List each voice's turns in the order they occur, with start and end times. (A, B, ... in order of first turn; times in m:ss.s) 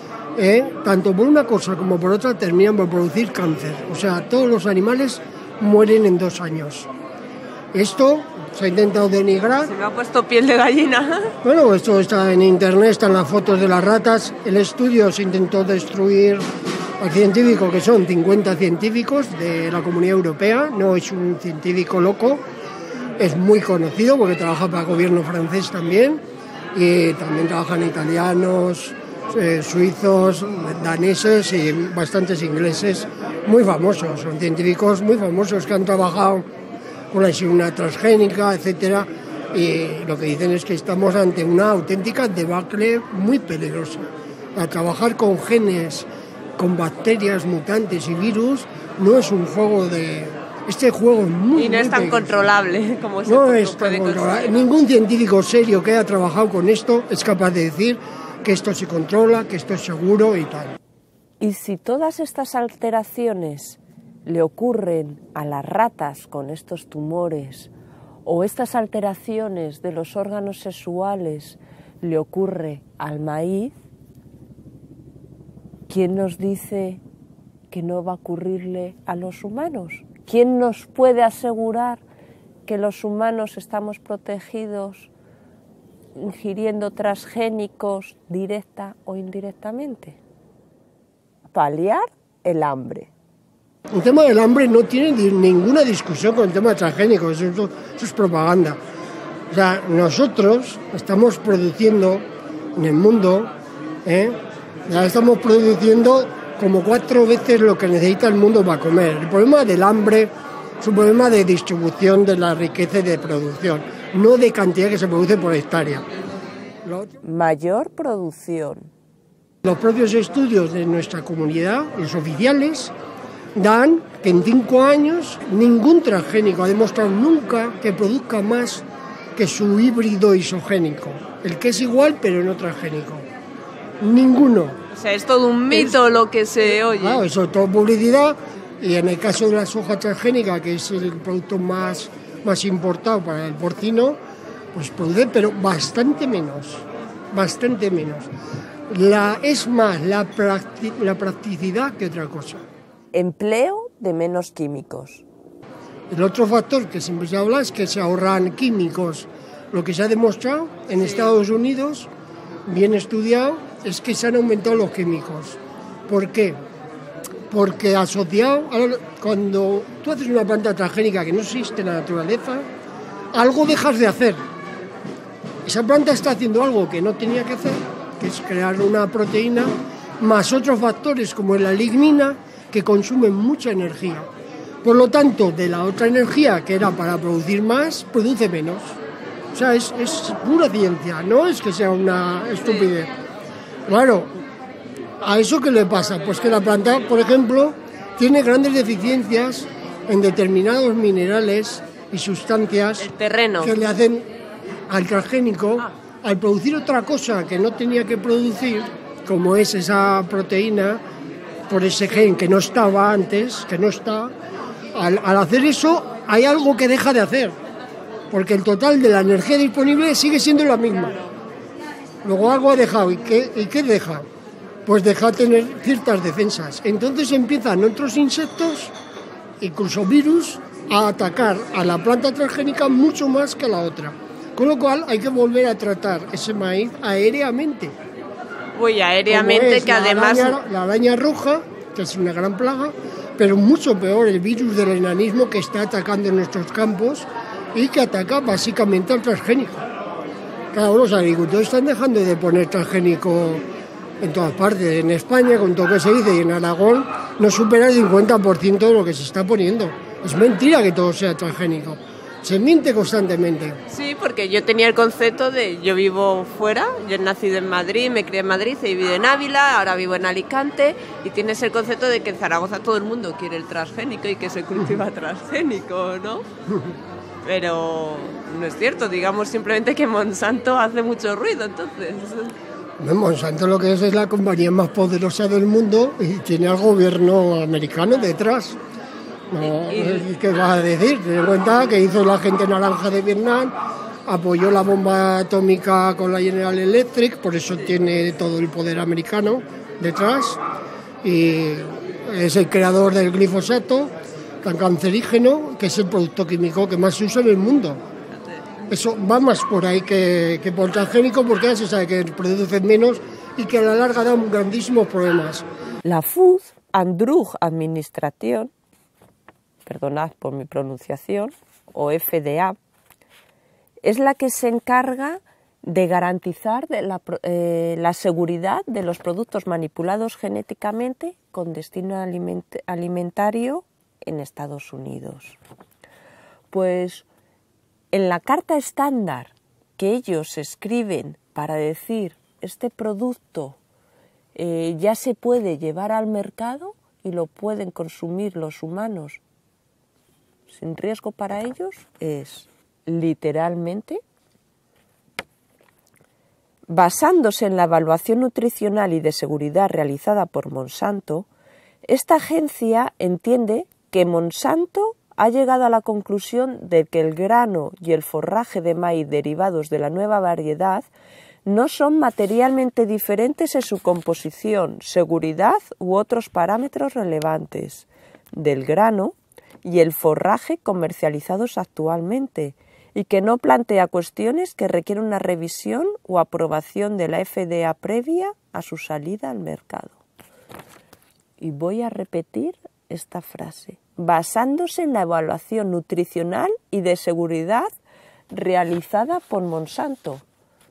0:00.4-0:06.9 A
0:07.7-0:09.7 A
0:09.6-0:11.3 B
0:11.4-0:16.4 A
0:17.0-0:22.4 A
0:23.2-0:26.2 A
0:26.7-0:36.4 A
0:37.1-0:52.4 A
0:51.5-0:54.7 B
0:53.2-1:00.8 A
1:01.4-1:07.7 C
1:08.2-1:13.7 C
1:15.9-1:17.0 C
1:17.7-1:22.0 C
1:22.6-1:25.1 C
1:26.1-1:30.2 C
1:31.5-1:33.1 C
1:33.9-1:38.8 A
1:39.5-1:43.5 A
1:44.0-1:56.0 A
1:56.8-1:57.2 A
1:57.2-1:58.9 C
1:59.6-2:02.9 A
2:03.5-2:08.8 A
2:09.4-2:13.3 A
2:14.0-2:14.8 A
2:14.9-2:17.2 B
2:15.7-2:16.0 A
2:17.0-2:24.2 A
2:24.7-2:28.3 A
2:28.9-2:32.6 A
2:33.1-2:35.2 C
2:36.1-2:42.1 A
2:41.0-2:41.3 B
2:42.7-2:46.6 A
2:47.5-2:52.7 A
2:53.3-2:54.4 A
2:55.6-3:04.3 A
3:04.8-3:09.0 A
3:09.5-3:13.1 A
3:13.9-3:14.3 A
3:15.2-3:24.3 A
3:23.0-3:23.7 B
3:24.9-3:31.0 A
3:31.7-3:34.3 A
3:34.9-3:37.6 A
3:38.3-3:41.2 A
3:42.2-3:44.3 A
3:44.8-3:48.9 A
3:49.6-3:58.0 A
3:58.8-4:00.6 B
3:59.3-4:09.8 A
4:10.7-4:13.6 A
4:14.2-4:23.8 A
4:23.9-4:36.4 B
4:36.7-4:36.9 A
4:37.4-4:42.5 B
4:43.0-4:48.8 A
4:49.5-5:00.6 A
4:49.6-4:50.3 B
5:01.2-5:08.0 A
5:08.9-5:15.6 A
5:16.0-5:18.7 C
5:19.8-5:22.8 C
5:24.0-5:35.6 C
5:36.7-5:37.2 C
5:38.1-5:43.8 C
5:44.5-5:49.4 C
5:50.7-5:54.2 C
5:56.9-6:01.5 C
6:02.0-6:11.1 C
6:11.6-6:30.2 C
6:31.6-6:37.9 C
6:38.5-6:40.4 C